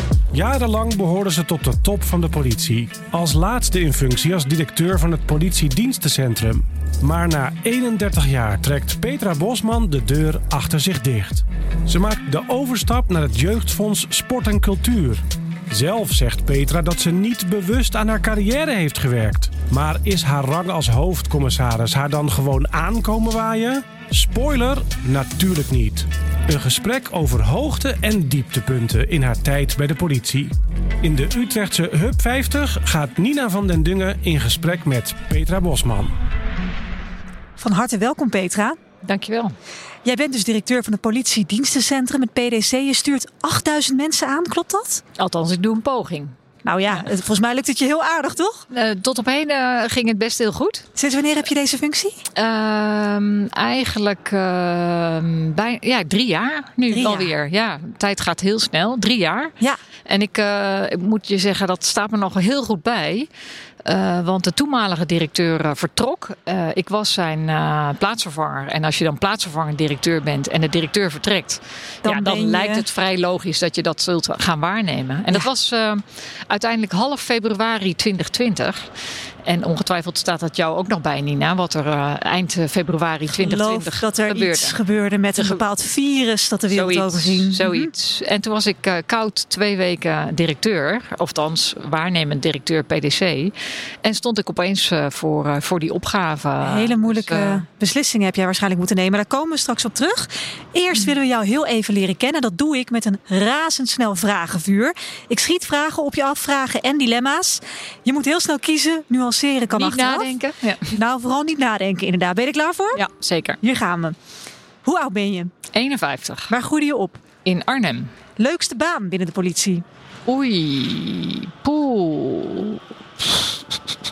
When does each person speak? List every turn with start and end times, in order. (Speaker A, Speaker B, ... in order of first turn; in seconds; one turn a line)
Speaker A: 0.3-36.1
Speaker B: 37.6-38.8
Speaker C: 39.0-39.5
Speaker B: 40.0-45.0
Speaker C: 45.2-46.3
Speaker B: 46.6-48.7
Speaker C: 48.7-50.9
Speaker B: 51.0-52.2
Speaker C: 52.4-63.3
Speaker B: 56.9-57.3
Speaker C: 63.8-78.9
Speaker B: 72.0-72.8
Speaker C: 79.5-84.8
Speaker B: 83.3-87.9
Speaker C: 85.3-85.6
Speaker C: 86.7-97.6
Speaker B: 96.6-110.3
Speaker C: 109.7-111.0
Speaker B: 110.9-113.0
Speaker C: 112.9-113.6
Speaker B: 113.6-114.2
Speaker B: 114.8-115.5
Speaker C: 115.7-116.5
Speaker B: 116.5-117.2
Speaker C: 117.5-118.1
Speaker B: 118.4-119.8
Speaker C: 120.2-124.0